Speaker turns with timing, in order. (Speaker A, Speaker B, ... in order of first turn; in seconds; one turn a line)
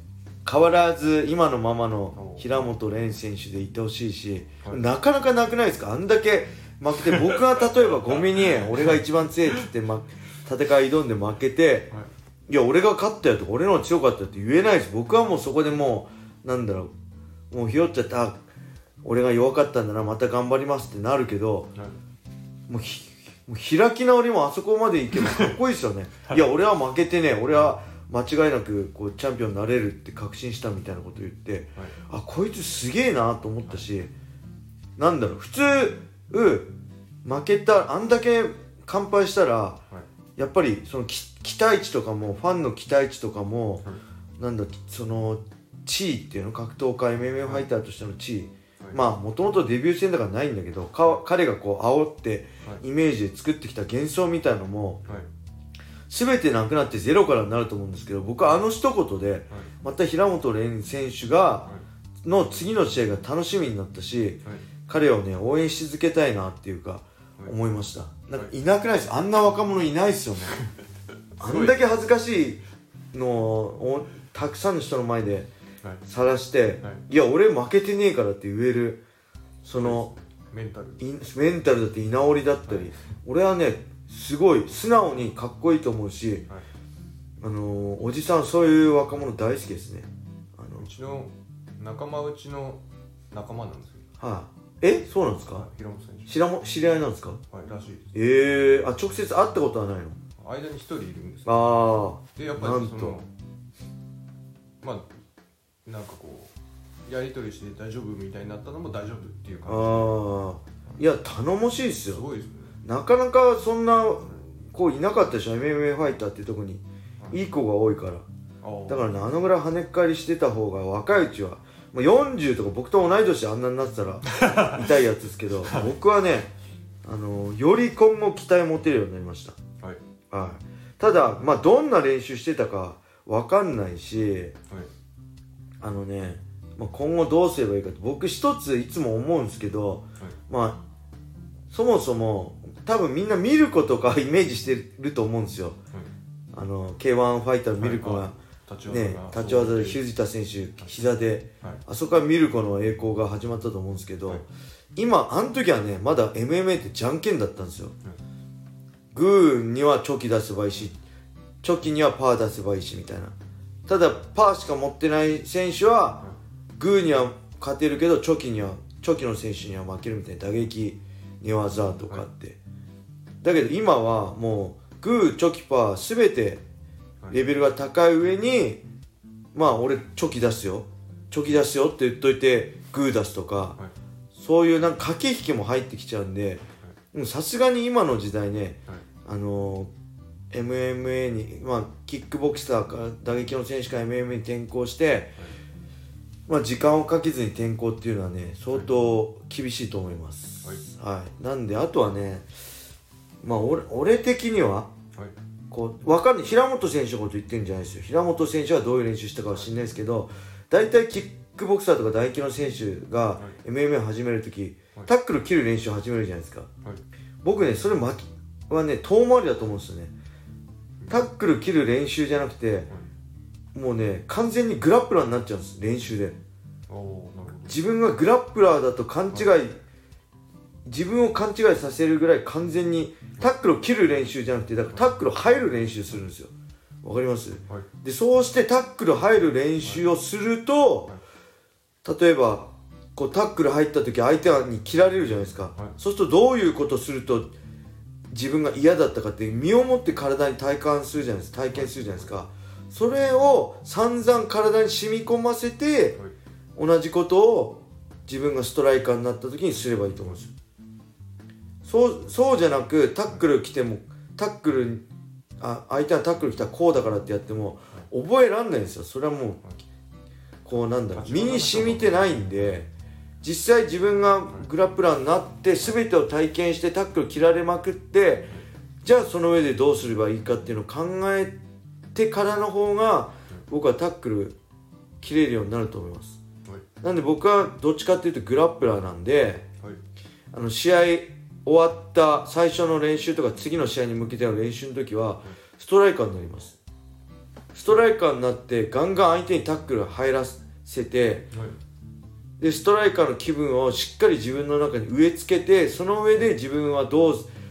Speaker A: 0.5-12.0
Speaker B: 2.2-2.6
Speaker B: 8.3-8.6
Speaker A: 12.5-16.9
Speaker A: 17.5-18.4
Speaker A: 19.0-21.8
Speaker A: 22.7-34.1
Speaker A: 35.0-39.8
Speaker A: 40.4-43.9
Speaker A: 44.4-55.1
Speaker A: 56.1-61.7
Speaker A: 62.2-70.6
Speaker A: 71.4-72.6
Speaker B: 71.4-71.8
Speaker A: 73.1-75.5
Speaker A: 76.0-79.0
Speaker A: 79.7-80.1
Speaker B: 79.7-81.0
Speaker A: 81.0-86.5
Speaker A: 87.4-90.9
Speaker B: 90.8-94.1
Speaker A: 94.2-95.7
Speaker B: 95.5-96.3
Speaker A: 96.3-97.4
Speaker B: 97.5-98.2
Speaker A: 98.1-100.2
Speaker B: 100.4-103.3
Speaker A: 101.5-103.2
Speaker B: 104.8-105.1
Speaker B: 105.8-106.5
Speaker B: 107.1-110.2
Speaker A: 109.7-112.2
Speaker B: 112.0-112.8
Speaker A: 112.8-118.2
Speaker B: 118.6-119.1
Speaker A: 118.9-126.5
Speaker B: 124.4-124.7
Speaker A: 127.0-129.6
Speaker A: 130.3-134.6
Speaker A: 135.8-140.8
Speaker A: 141.7-145.8
Speaker A: 146.5-157.9
Speaker B: 147.8-150.0
Speaker A: 159.1-161.0
Speaker A: 161.6-163.3
Speaker A: 163.9-172.6
Speaker A: 173.4-176.6
Speaker A: 177.3-178.8
Speaker A: 179.5-183.8
Speaker A: 184.3-189.9
Speaker A: 190.5-195.4
Speaker A: 196.5-202.5
Speaker A: 203.4-204.9
Speaker A: 205.7-216.7
Speaker A: 217.4-220.1
Speaker A: 221.1-222.9
Speaker A: 223.7-226.4
Speaker B: 226.9-227.8
Speaker A: 227.7-229.8
Speaker A: 230.9-236.5
Speaker A: 237.0-241.2
Speaker B: 239.8-240.1
Speaker A: 242.0-247.5
Speaker A: 248.3-256.2
Speaker B: 251.7-252.3
Speaker A: 256.8-260.5
Speaker A: 261.8-265.1
Speaker A: 265.6-269.6
Speaker A: 270.6-272.9
Speaker B: 271.1-272.7
Speaker A: 273.4-281.6
Speaker A: 282.1-284.6
Speaker A: 285.2-286.4
Speaker A: 287.0-289.7
Speaker A: 290.5-296.8
Speaker A: 297.7-301.5
Speaker A: 302.6-307.5